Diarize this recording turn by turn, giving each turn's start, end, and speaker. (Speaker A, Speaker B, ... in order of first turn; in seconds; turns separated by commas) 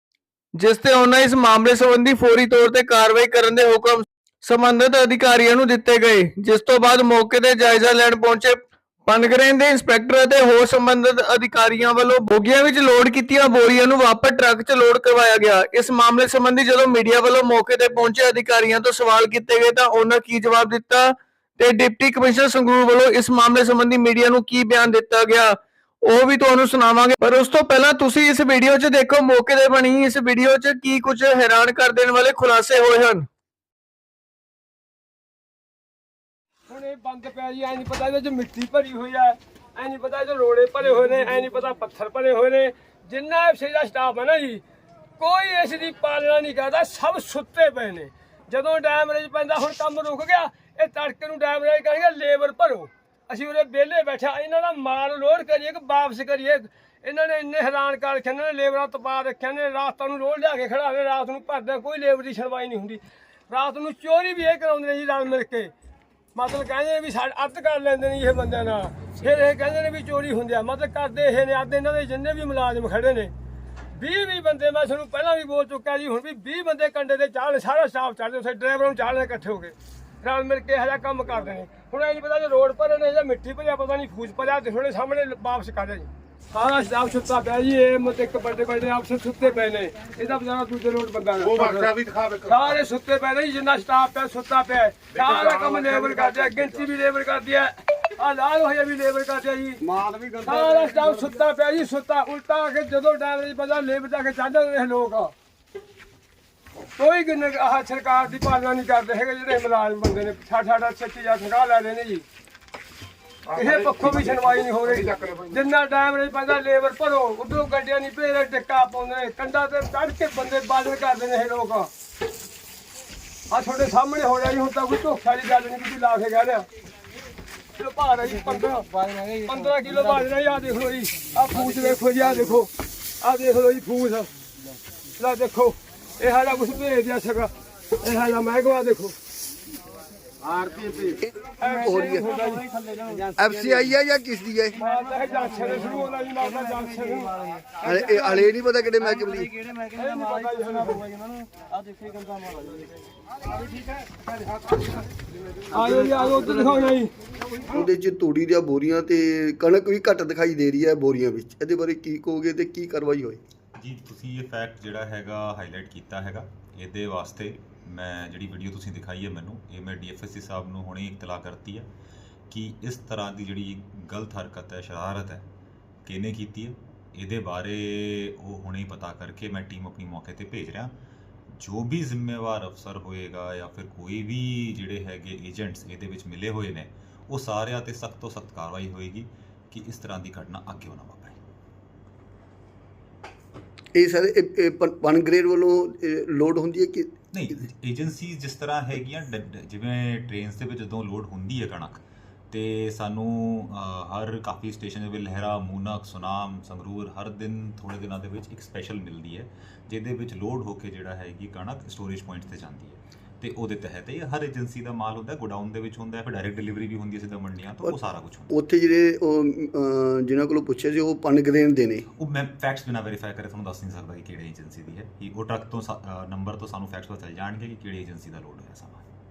Speaker A: 0.6-33.2, Speaker B: 36.7-44.6, Speaker B: 45.2-65.7, Speaker B: 66.3-73.3, Speaker B: 73.9-99.8, Speaker C: 99.9-101.2, Speaker B: 100.4-105.3, Speaker B: 107.0-112.2, Speaker B: 113.5-121.9, Speaker B: 123.5-126.7, Speaker B: 127.8-132.7, Speaker B: 133.2-134.3, Speaker B: 135.2-139.1, Speaker C: 140.6-141.1, Speaker D: 141.2-142.2, Speaker B: 141.6-142.7, Speaker D: 143.3-144.8, Speaker B: 144.8-147.4, Speaker D: 147.8-149.5, Speaker B: 149.9-151.1, Speaker B: 155.7-157.1, Speaker D: 157.7-163.4, Speaker E: 163.8-171.9, Speaker E: 172.5-175.5, Speaker E: 176.0-180.9, Speaker E: 181.5-191.4, Speaker D: 193.9-197.2, Speaker E: 197.3-218.6, Speaker D: 218.5-222.1, Speaker E: 222.1-229.0